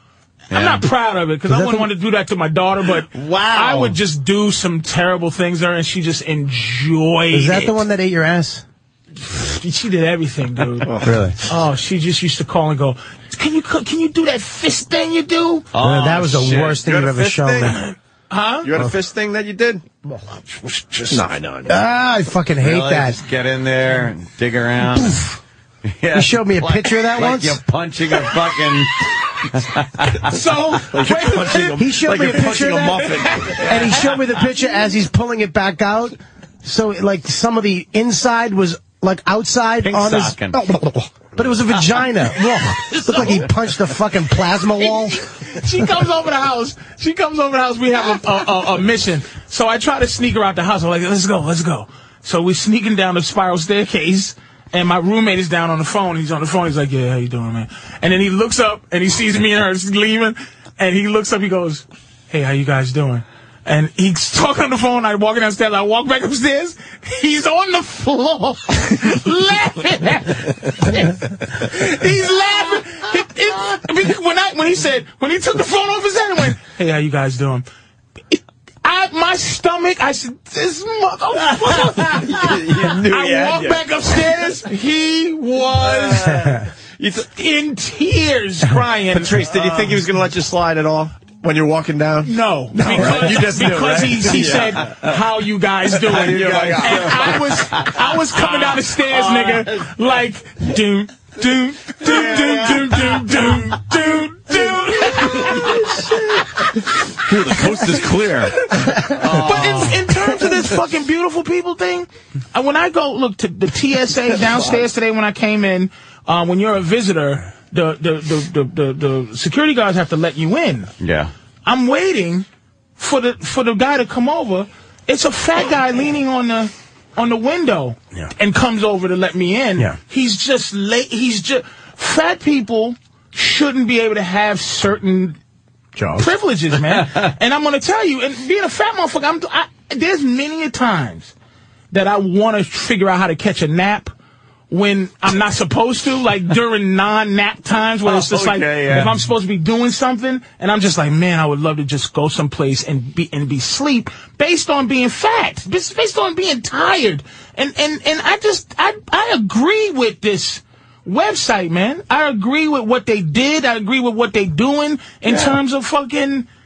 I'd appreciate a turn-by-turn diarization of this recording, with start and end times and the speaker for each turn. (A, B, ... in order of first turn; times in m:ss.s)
0:00.5-0:00.9 A
0:00.5-0:07.8 B
0:01.5-0:01.9 C
0:03.1-0:04.0 A
0:07.3-0:08.6 C
0:09.2-0:10.9 B
0:10.8-0:11.2 D
0:11.0-0:11.4 C
0:11.5-0:15.7 B
0:15.7-0:16.8 A
0:15.8-0:17.8 C
0:16.7-0:17.8 D
0:17.8-0:18.7 B
0:18.6-0:19.8 D
0:20.5-0:21.0 B
0:21.1-0:21.8 D
0:21.7-0:23.2 C
0:22.6-0:25.3 A
0:25.0-0:25.2 C
0:26.0-0:30.3 A
0:26.1-0:27.6 C
0:30.2-0:34.2 B
0:30.8-0:33.7 D
0:31.8-0:33.0 C
0:33.6-0:45.2 C
0:39.8-0:40.6 A
0:42.8-0:43.5 B
0:44.8-1:17.7 B
1:18.3-1:26.5 B
1:22.2-1:23.8 D
1:26.4-1:26.7 C
1:27.2-1:29.5 B
1:29.1-1:35.1 D
1:32.2-1:46.4 B
1:36.0-1:37.4 D
1:36.2-1:39.9 A
1:42.0-1:43.7 A
1:45.2-1:45.8 A
1:47.2-1:48.6 D
1:49.2-1:50.0 A
1:49.3-2:00.9 B
2:01.0-2:01.3 A
2:01.6-2:02.5 B
2:03.0-2:15.4 B
2:16.0-2:16.3 C
2:16.2-2:21.3 B
2:21.9-2:24.1 B
2:24.7-2:46.5 B
2:28.1-2:29.2 A